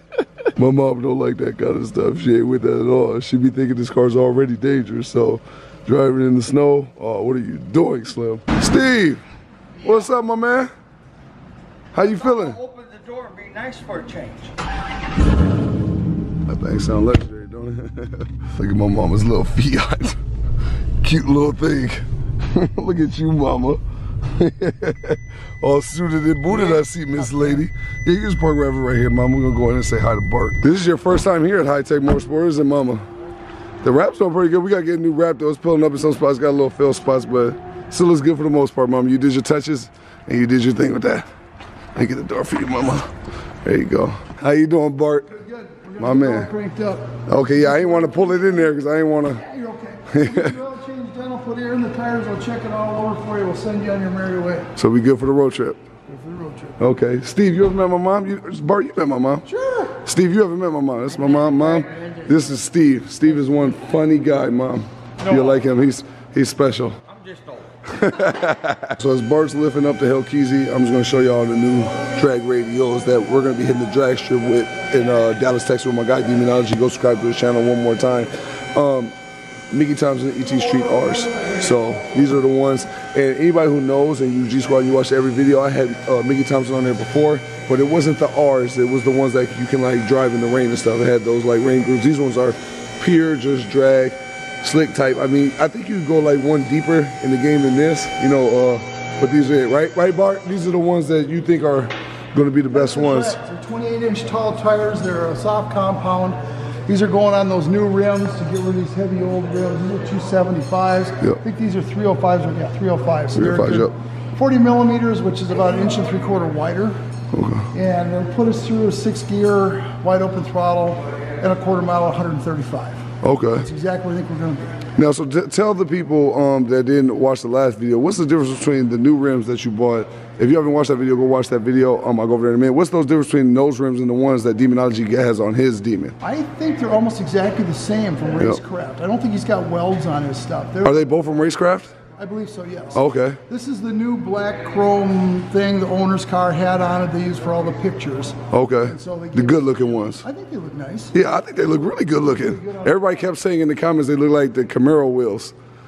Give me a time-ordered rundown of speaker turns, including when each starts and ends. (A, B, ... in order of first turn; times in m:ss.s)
0:00.6-0:09.2 A
0:09.8-0:10.7 A
0:11.9-0:12.6 A
0:12.0-0:14.5 B
0:16.5-0:20.2 A
0:21.0-0:33.0 A
0:33.8-0:41.3 A
0:41.9-0:43.1 A
0:43.6-0:45.4 A
0:45.3-0:48.7 C
0:46.0-0:46.5 A
0:47.2-0:49.4 A
0:49.4-0:54.7 C
0:50.1-0:50.6 A
0:54.7-0:55.8 A
0:56.1-0:56.8 C
0:56.8-0:59.4 A
0:59.4-1:00.0 C
1:00.0-1:07.0 A
1:01.1-1:02.4 C
1:01.6-1:01.8 B
1:07.1-1:07.7 B
1:07.8-1:19.1 A
1:19.7-1:43.4 A
1:42.7-1:57.0 C
1:53.3-1:53.9 A
1:57.3-1:57.7 A
1:57.7-2:03.0 C
2:03.2-2:03.6 A
2:03.6-2:04.7 C
2:05.0-2:16.2 A
2:16.2-2:21.0 C
2:20.8-2:21.9 A
2:22.2-2:31.1 C
2:22.9-2:23.4 A
2:28.5-2:30.2 A
2:31.1-2:35.5 A
2:32.2-2:33.2 C